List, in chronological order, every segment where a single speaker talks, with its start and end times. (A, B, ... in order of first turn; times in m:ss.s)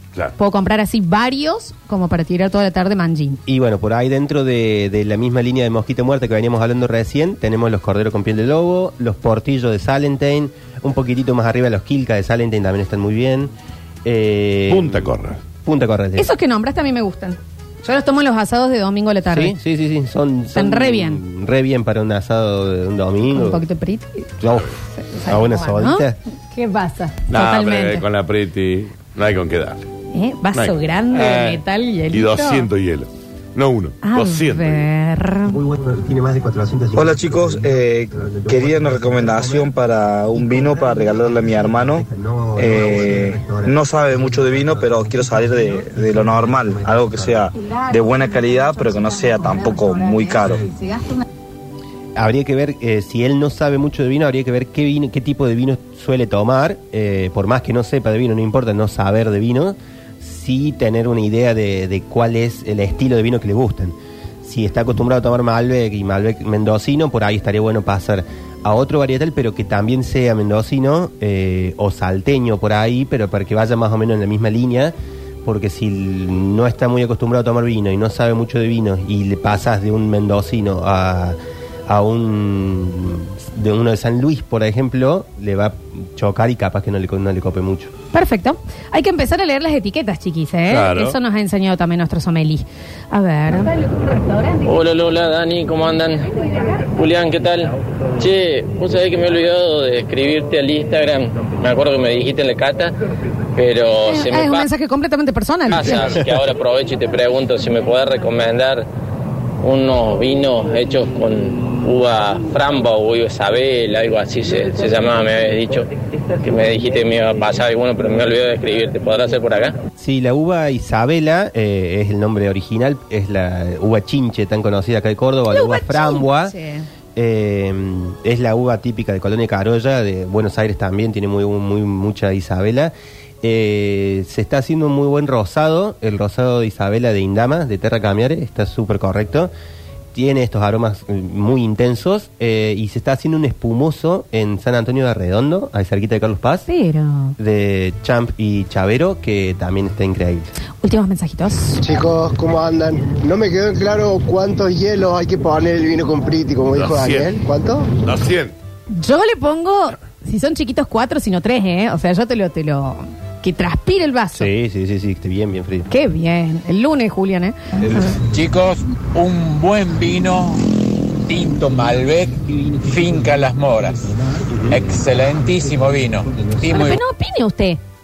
0:00.4-0:03.4 A
0:03.5-0:13.5 B
0:14.0-0:15.0 B
0:14.7-0:15.4 C
0:15.6-0:16.3 B
0:16.2-0:19.6 A
0:19.3-0:23.6 B
0:20.5-0:21.2 A
0:23.3-0:24.3 A
0:24.4-0:24.7 B
0:24.9-0:28.0 A
0:25.3-0:26.2 B
0:27.3-0:29.9 C
0:30.1-0:32.7 A
0:30.5-0:34.8 C
0:34.0-0:35.6 A
0:35.4-0:39.7 B
0:37.0-0:42.0 D
0:40.3-0:47.5 B
0:42.6-0:50.6 D
0:47.6-0:51.1 A
0:52.2-1:27.9 B
1:28.1-1:34.0 A
1:30.7-1:31.2 C
1:34.6-1:42.9 E
1:43.6-1:44.6 E
1:44.1-1:46.2 A
1:45.7-1:48.9 E
1:49.6-1:55.9 E
1:56.4-1:59.7 E
2:00.0-2:06.5 B
2:05.5-2:06.8 A
2:07.2-2:19.5 B
2:20.1-2:26.7 B
2:26.7-2:27.4 A
2:27.4-2:30.5 B
2:30.8-2:31.8 A
2:31.8-2:37.9 F
2:36.7-2:37.4 C
2:38.0-2:38.5 C
2:38.9-2:44.5 A
2:44.3-2:45.9 B
2:45.9-2:48.1 A
2:48.1-2:50.6 G
2:51.2-2:54.0 G
2:54.7-2:57.0 G
2:56.6-2:57.8 A